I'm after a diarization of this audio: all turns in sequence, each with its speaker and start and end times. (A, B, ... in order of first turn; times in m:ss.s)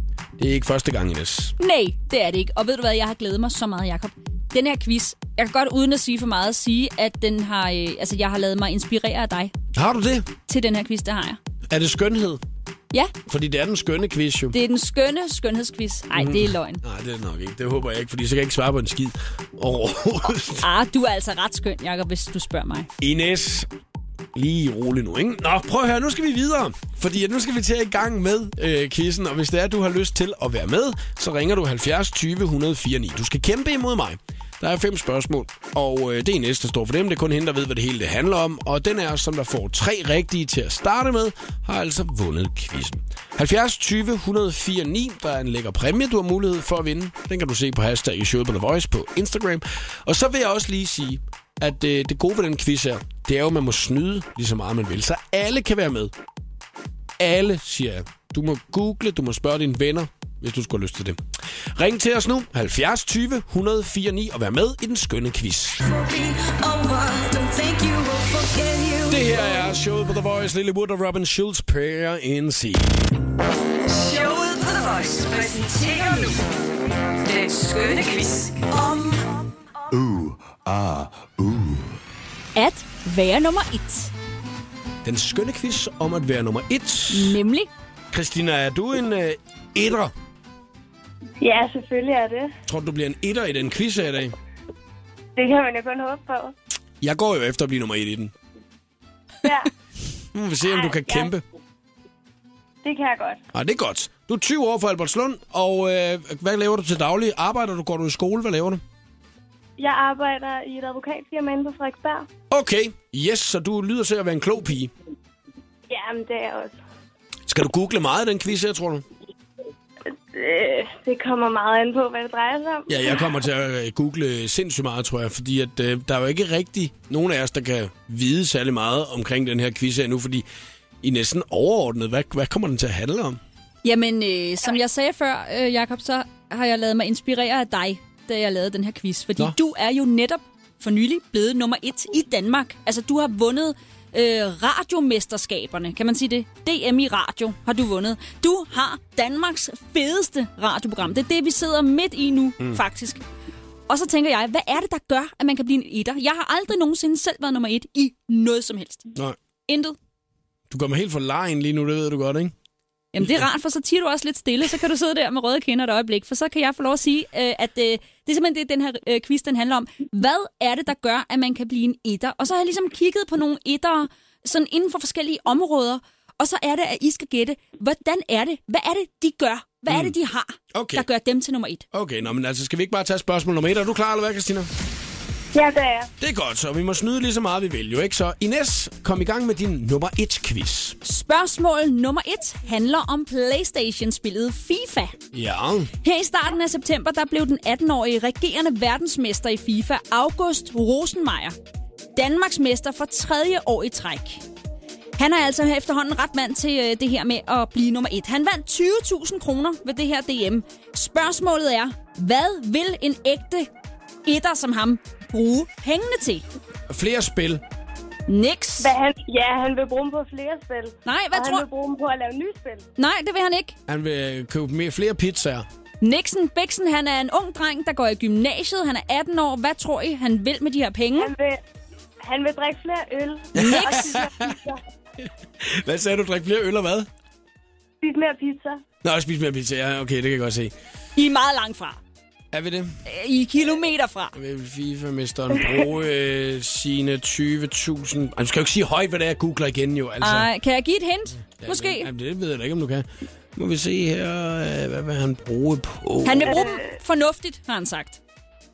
0:00.4-0:01.5 A
0:01.6-0:09.5 B
0:09.7-0:10.3 A
0:10.5-0:11.4 B
0:11.7-0:12.4 A
0:13.3-0:14.6 A
0:14.5-0:16.8 B
0:16.1-0:20.6 A
0:20.6-0:22.9 B
0:23.0-0:23.7 A
0:24.4-0:56.1 A
0:57.2-1:01.2 A
1:01.8-1:05.8 A
1:05.9-1:09.2 C
1:09.1-1:13.0 A
1:13.8-1:16.5 C
1:17.2-1:19.4 C
1:22.6-1:24.1 B
1:25.0-1:27.4 A
1:27.1-1:27.7 B
1:28.1-1:30.1 A
1:31.4-1:32.5 D
1:32.7-1:34.4 A
1:35.4-1:36.6 D
1:37.0-1:38.3 A
1:39.4-1:39.7 D
1:40.3-1:41.4 A
1:40.6-1:41.3 D
1:42.8-1:43.4 D
1:43.5-1:48.8 A
1:49.8-1:52.3 D
1:52.5-1:54.9 A
1:55.9-1:56.8 D
1:57.5-1:59.0 A
2:00.3-2:03.2 D
2:02.9-2:10.4 A
2:11.0-2:13.4 A
2:13.8-2:33.2 B
2:33.9-2:39.1 B
2:39.7-2:40.0 B
2:40.7-2:42.5 A
2:43.1-3:01.8 B
2:59.9-3:00.1 A
3:00.7-3:01.1 A
3:01.9-3:04.7 A
3:05.5-3:06.1 D
3:06.2-3:11.0 A
3:11.0-3:15.1 B
3:15.3-3:15.9 A
3:16.0-3:21.6 B
3:22.2-3:24.4 B
3:25.2-3:33.7 B
3:34.3-3:36.4 B
3:36.9-3:37.6 A
3:38.3-3:38.9 B
3:38.8-3:42.9 D
3:41.0-3:41.6 B
3:43.0-3:43.8 B
3:43.9-3:45.6 A
3:46.0-3:51.3 B
3:51.2-3:51.6 D
3:52.2-3:54.8 D
3:53.5-3:54.6 A
3:53.6-3:54.2 B
3:55.2-3:57.1 A
3:58.0-3:58.8 D
3:59.0-4:00.7 A
4:01.2-4:02.0 B
4:02.5-4:03.0 A
4:03.1-4:04.3 B
4:04.4-4:10.5 A
4:10.2-4:12.1 B
4:11.6-4:16.6 A
4:16.2-4:18.2 B
4:16.5-4:16.9 D